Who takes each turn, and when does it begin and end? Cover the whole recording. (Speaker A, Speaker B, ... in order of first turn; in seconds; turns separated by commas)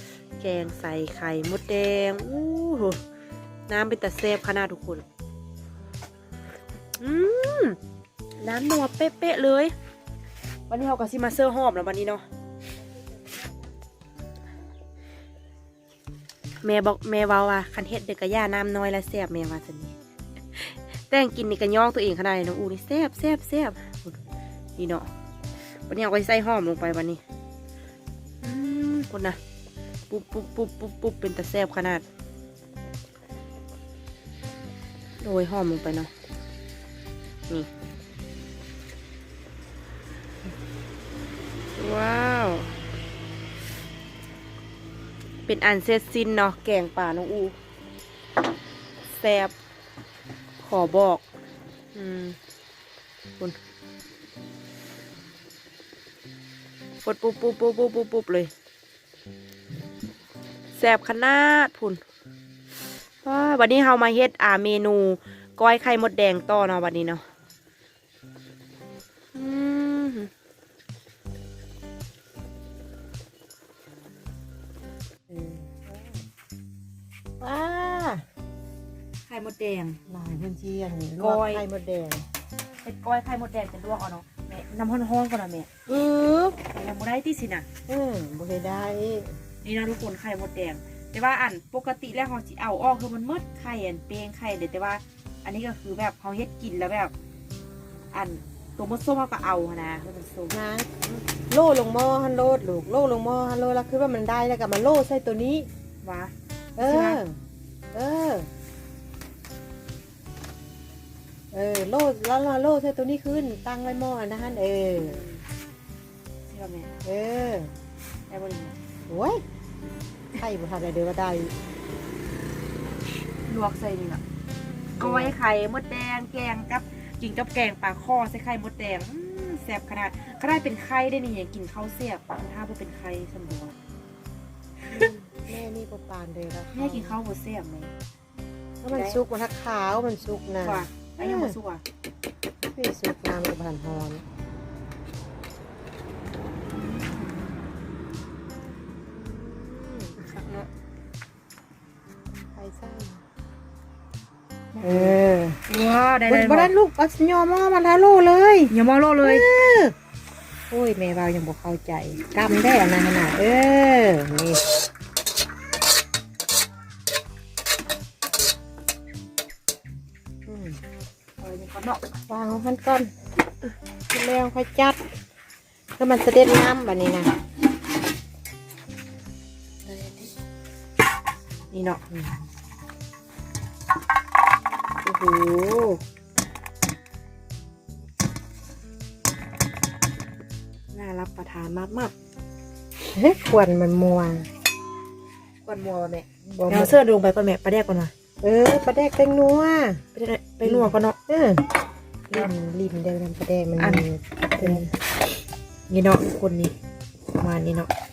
Speaker A: 0.4-3.0, Speaker A: 3.7-5.0, Speaker A: 7.0-7.8, Speaker A: 8.4-9.7, Speaker A: 10.7-12.2, Speaker A: 16.6-19.9, Speaker A: 20.5-24.2, Speaker A: 24.8-25.1, Speaker A: 25.9-27.2, Speaker A: 28.4-29.4, Speaker A: 30.1-32.0, Speaker A: 35.2-36.1, Speaker A: 41.7-42.7, Speaker A: 45.5-47.5, Speaker A: 49.1-49.5, Speaker A: 50.6-51.2, Speaker A: 51.9-52.4, Speaker A: 57.0-58.5, Speaker A: 60.8-62.0, Speaker A: 63.2-67.2, Speaker A: 69.3-70.3, Speaker B: 75.3-76.1, Speaker B: 77.4-78.2, Speaker A: 79.3-80.0, Speaker B: 80.1-82.2, Speaker A: 81.2-81.6, Speaker A: 82.8-85.7, Speaker B: 85.9-86.6, Speaker A: 86.6-87.7, Speaker B: 87.9-89.4, Speaker A: 89.6-97.1, Speaker A: 98.1-100.5, Speaker B: 100.5-105.7, Speaker A: 106.0-107.2, Speaker B: 106.8-107.4, Speaker B: 107.9-108.5, Speaker B: 111.5-115.2, Speaker A: 115.0-115.4, Speaker A: 116.5-116.9, Speaker B: 117.0-117.7, Speaker A: 118.3-118.8, Speaker B: 119.1-119.4, Speaker B: 120.3-121.5, Speaker A: 123.5-124.2, Speaker A: 125.0-133.7, Speaker B: 125.0-125.3, Speaker A: 134.8-135.2, Speaker B: 134.9-137.2, Speaker A: 136.7-137.9, Speaker B: 138.8-141.6, Speaker A: 138.9-139.2, Speaker A: 140.6-141.8, Speaker B: 142.6-144.2, Speaker A: 146.7-147.5, Speaker B: 149.8-150.1, Speaker A: 150.2-150.7, Speaker B: 152.4-153.2, Speaker A: 154.7-155.2, Speaker B: 154.8-155.6, Speaker A: 155.7-156.7, Speaker B: 156.3-159.9, Speaker A: 158.7-159.4, Speaker B: 160.7-164.6, Speaker B: 170.5-170.8, Speaker A: 171.4-172.0, Speaker B: 172.3-173.1, Speaker B: 174.1-175.0, Speaker B: 176.0-177.3, Speaker A: 179.8-180.3, Speaker A: 181.7-182.0, Speaker B: 182.1-182.4, Speaker A: 185.1-186.0, Speaker A: 190.9-192.1, Speaker B: 193.1-194.5, Speaker A: 195.6-198.1, Speaker B: 196.4-197.0, Speaker B: 198.4-200.0, Speaker A: 200.1-201.2, Speaker B: 200.6-201.6, Speaker B: 202.3-204.8, Speaker A: 203.8-204.9, Speaker A: 205.9-206.7, Speaker A: 207.4-207.9